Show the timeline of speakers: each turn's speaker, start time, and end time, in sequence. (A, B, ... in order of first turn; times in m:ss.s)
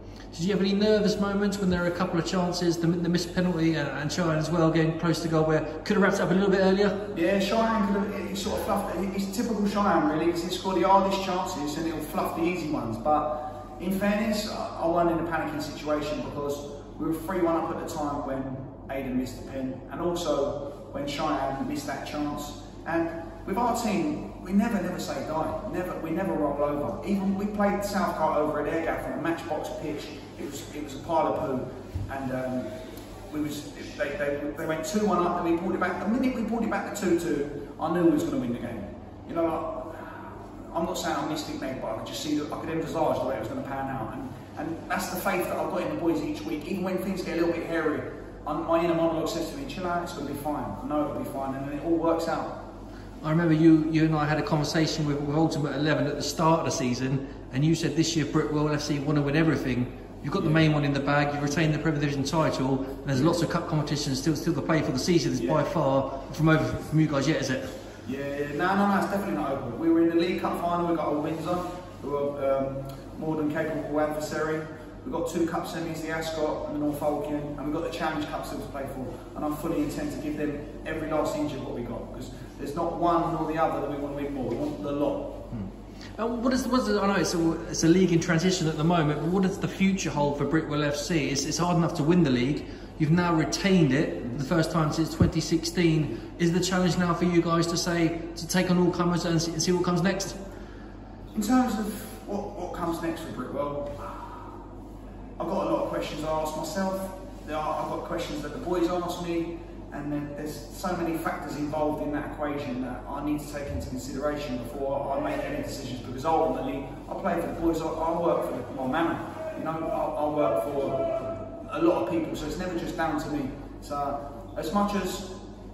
0:00.3-0:07.0 A
0:07.1-0:32.7 B
0:33.3-0:52.5 B
0:53.2-1:07.7 A
1:00.4-1:00.6 B
1:03.1-1:03.4 B
1:05.4-1:05.6 B
1:08.0-1:25.4 B
1:25.5-1:40.4 A
1:41.3-1:44.4 B
1:45.4-2:05.3 B